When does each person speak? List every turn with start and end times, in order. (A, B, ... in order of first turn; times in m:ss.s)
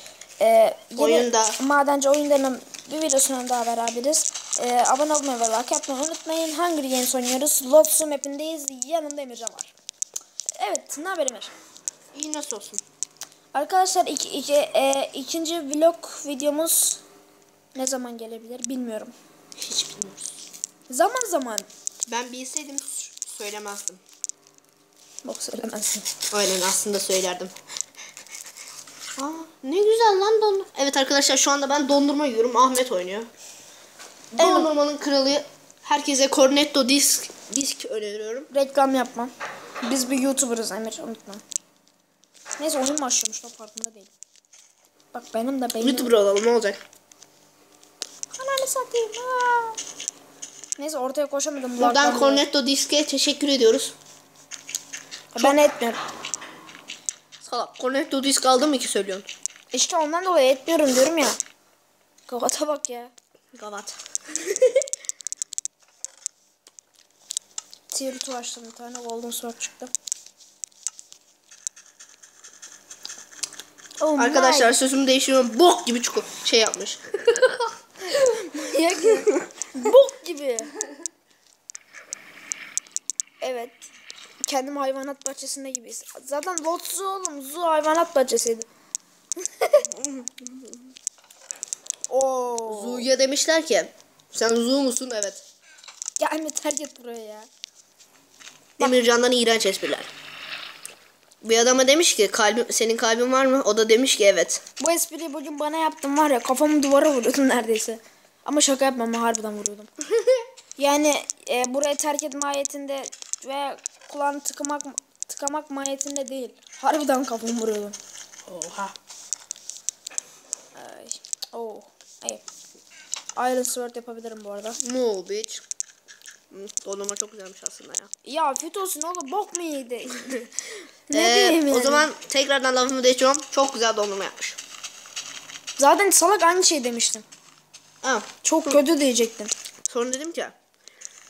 0:00.4-0:09.7 A
0:01.0-0:01.6 B
0:10.6-0:11.5 A
0:12.1-0:12.8 B
0:13.5-0:17.0 A
0:17.7-0:19.1 A
0:19.6-0:20.3 B
0:20.9-0:21.7 A
0:22.1-0:24.0 B
0:25.2-0:26.1 A
0:26.3-0:27.5 B
0:29.2-0:33.3 B
0:34.4-0:38.5 B
0:34.4-0:34.7 A
0:38.5-0:41.4 A
0:42.5-0:44.1 A
0:45.1-0:46.1 A
0:45.8-0:46.8 B
0:48.3-0:49.8 A
0:50.8-0:52.4 A
0:51.8-0:54.0 B
0:55.3-0:56.0 A
0:57.4-0:59.3 B
0:59.7-1:01.4 A
1:02.3-1:03.1 A
1:03.5-1:04.8 B
1:07.9-1:09.9 A
1:14.0-1:14.8 A
1:14.2-1:17.7 B
1:18.1-1:20.7 A
1:23.4-1:23.9 A
1:24.4-1:28.7 A
1:29.4-1:29.9 A
1:29.9-1:30.6 B
1:32.1-1:33.1 A
1:32.7-1:35.4 B
1:36.2-1:37.5 A
1:38.8-1:40.1 B
1:41.4-1:44.6 B
1:44.8-1:49.9 A
1:50.8-1:58.0 A
1:58.5-1:59.0 B
2:00.7-2:02.4 A
2:03.4-2:04.8 A
2:04.8-2:05.6 B
2:06.5-2:08.1 B
2:08.2-2:10.5 A
2:11.1-2:12.1 A
2:11.1-2:14.6 B
2:15.8-2:17.2 A
2:18.0-2:18.8 B
2:18.4-2:19.5 A
2:19.9-2:20.6 B